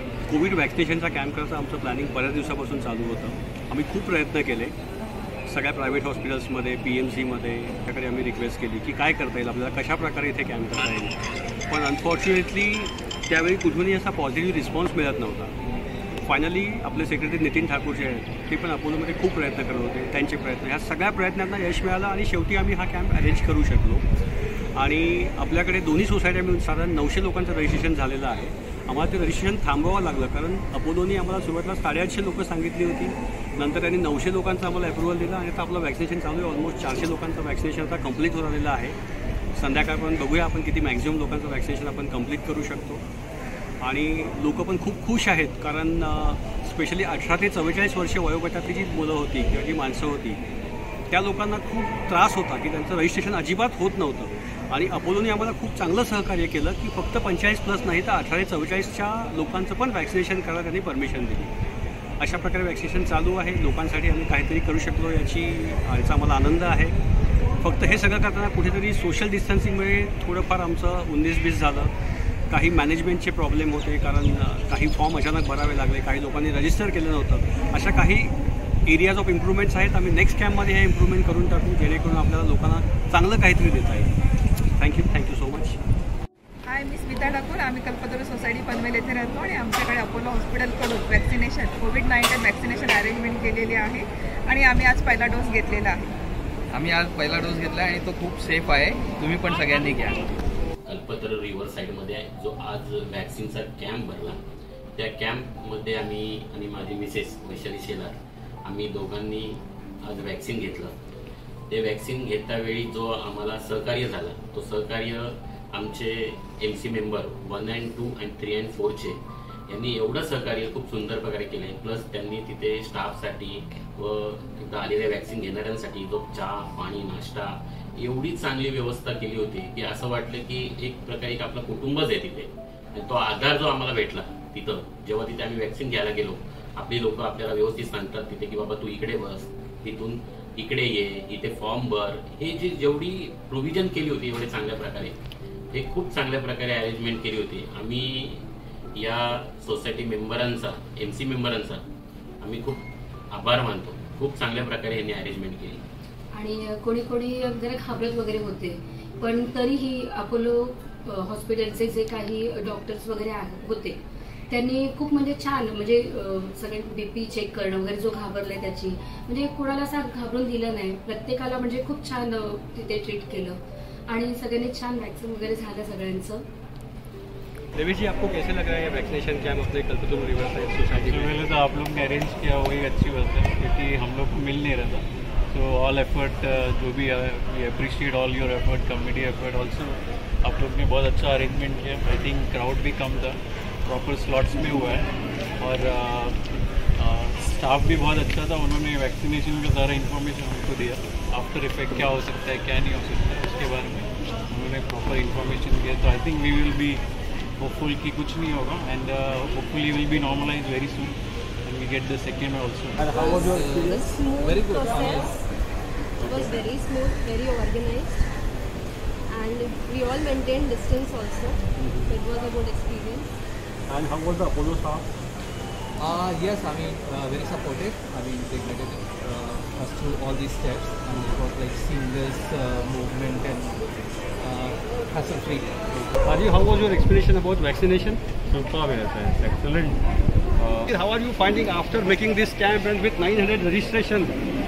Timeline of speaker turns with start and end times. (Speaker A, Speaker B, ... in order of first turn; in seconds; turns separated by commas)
Speaker A: 0.3-4.7, Speaker A: 5.5-11.1, Speaker A: 11.7-15.5, Speaker A: 16.2-24.0, Speaker A: 24.8-39.0, Speaker A: 39.5-43.0, Speaker A: 43.8-50.4, Speaker A: 51.1-61.5, Speaker A: 62.2-66.9, Speaker A: 67.6-71.9, Speaker A: 72.5-78.3, Speaker A: 78.8-84.1, Speaker A: 84.8-85.8, Speaker B: 86.7-96.0, Speaker C: 96.7-100.2, Speaker D: 100.8-104.4, Speaker D: 105.0-110.9, Speaker D: 111.7-145.2, Speaker D: 145.7-148.4, Speaker D: 148.9-151.8, Speaker D: 152.4-155.8, Speaker E: 156.3-176.4, Speaker A: 177.8-181.5, Speaker F: 181.1-195.1, Speaker F: 195.6-196.3, Speaker F: 197.0-207.0, Speaker F: 207.6-211.1, Speaker F: 211.7-212.9, Speaker A: 213.0-213.4, Speaker G: 213.1-215.4, Speaker H: 213.3-215.4, Speaker G: 216.2-218.3, Speaker A: 216.2-216.6, Speaker G: 219.3-223.3, Speaker A: 221.8-222.1, Speaker A: 223.9-225.1, Speaker H: 226.0-233.9, Speaker H: 234.4-235.8, Speaker A: 236.1-238.2, Speaker A: 240.6-244.3